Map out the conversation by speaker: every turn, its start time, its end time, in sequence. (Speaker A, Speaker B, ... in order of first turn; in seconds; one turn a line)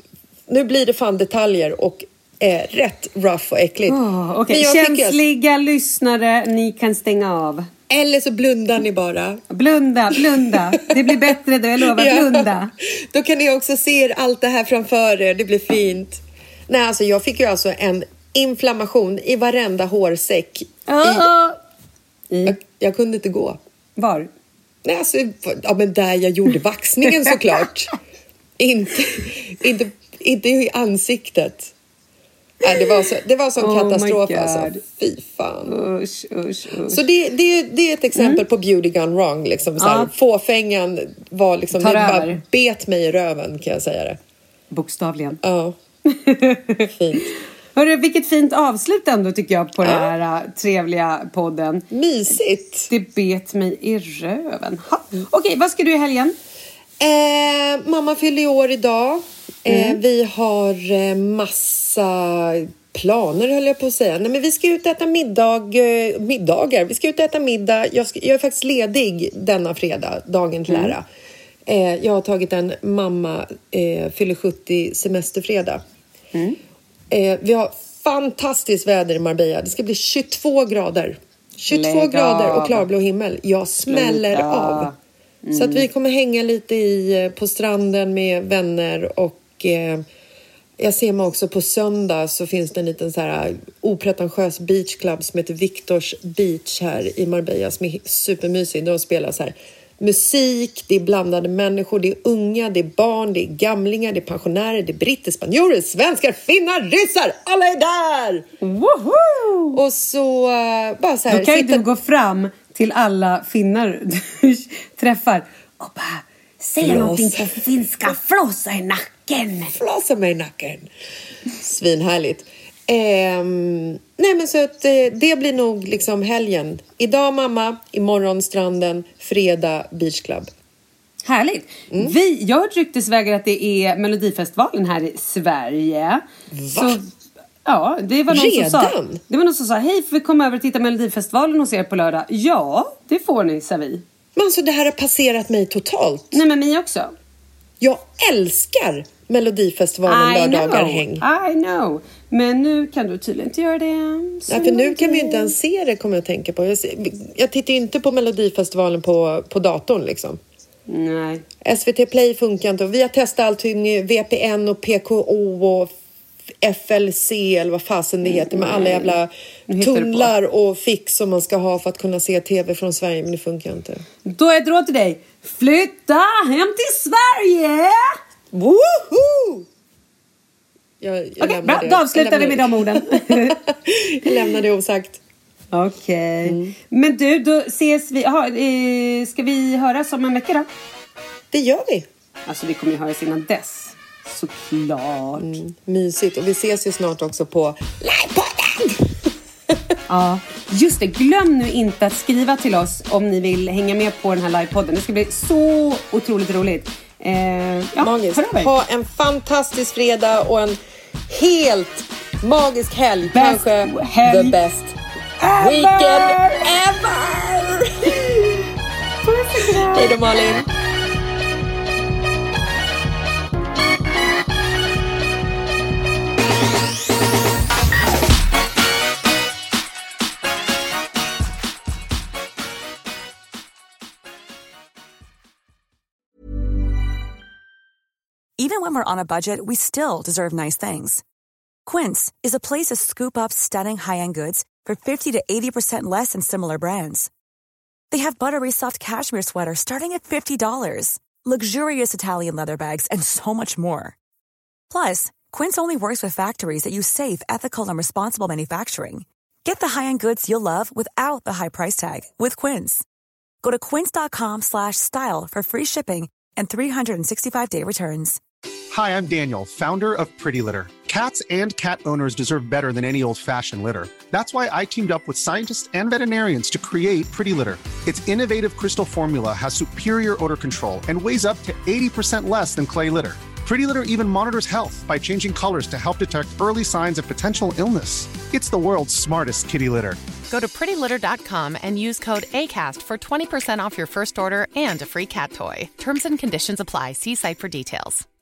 Speaker A: 0.5-5.2
Speaker B: 3.9-7.7
Speaker A: 7.9-9.4
Speaker B: 9.5-12.7
Speaker A: 10.1-21.3
Speaker B: 20.9-21.6
Speaker B: 22.3-22.6
Speaker A: 22.4-23.6
Speaker B: 24.0-24.3
Speaker A: 24.8-27.9
Speaker A: 28.6-31.7
Speaker A: 32.6-35.8
Speaker B: 33.6-34.8
Speaker B: 35.7-37.0
Speaker A: 36.9-44.2
Speaker B: 38.1-38.4
Speaker B: 39.8-40.1
Speaker B: 41.7-42.4
Speaker B: 44.7-45.4
Speaker A: 45.4-45.8
Speaker B: 46.1-51.8
Speaker A: 46.9-47.3
Speaker A: 49.8-50.1
Speaker A: 51.9-52.9
Speaker B: 52.9-56.4
Speaker A: 57.0-71.0
Speaker B: 59.7-60.0
Speaker B: 70.7-71.0
Speaker A: 71.7-75.8
Speaker A: 77.1-84.9
Speaker B: 81.7-82.9
Speaker B: 83.9-84.9
Speaker B: 85.5-85.9
Speaker A: 85.5-90.0
Speaker A: 90.8-108.5
Speaker B: 108.6-109.8
Speaker A: 109.7-111.8
Speaker B: 111.3-119.7
Speaker A: 116.8-117.6
Speaker A: 119.7-120.9
Speaker A: 121.6-130.5
Speaker B: 131.2-136.2
Speaker A: 136.5-137.0
Speaker B: 136.7-137.0
Speaker B: 137.7-144.0
Speaker A: 138.3-139.2
Speaker A: 144.3-146.4
Speaker B: 146.3-147.1
Speaker A: 147.8-151.3
Speaker B: 150.1-155.5
Speaker A: 154.5-160.4
Speaker B: 160.9-161.4
Speaker A: 161.6-165.9
Speaker A: 166.6-174.0
Speaker B: 168.2-169.2
Speaker B: 169.7-170.3
Speaker B: 174.2-178.2
Speaker A: 178.5-179.7
Speaker A: 181.0-185.2
Speaker B: 181.4-183.6
Speaker B: 185.7-190.7
Speaker A: 186.4-186.8
Speaker A: 191.5-192.1
Speaker B: 192.5-195.6
Speaker A: 195.4-199.2
Speaker A: 199.7-199.9
Speaker B: 200.1-208.7
Speaker A: 208.0-215.0
Speaker B: 213.3-214.6
Speaker B: 215.4-216.7
Speaker A: 215.5-218.4
Speaker B: 219.2-220.2
Speaker A: 219.9-220.7
Speaker C: 238.6-241.2
Speaker C: 241.9-247.3
Speaker C: 248.1-254.2
Speaker C: 254.9-263.1
Speaker C: 263.6-268.4
Speaker D: 268.9-290.2
Speaker E: 290.5-298.2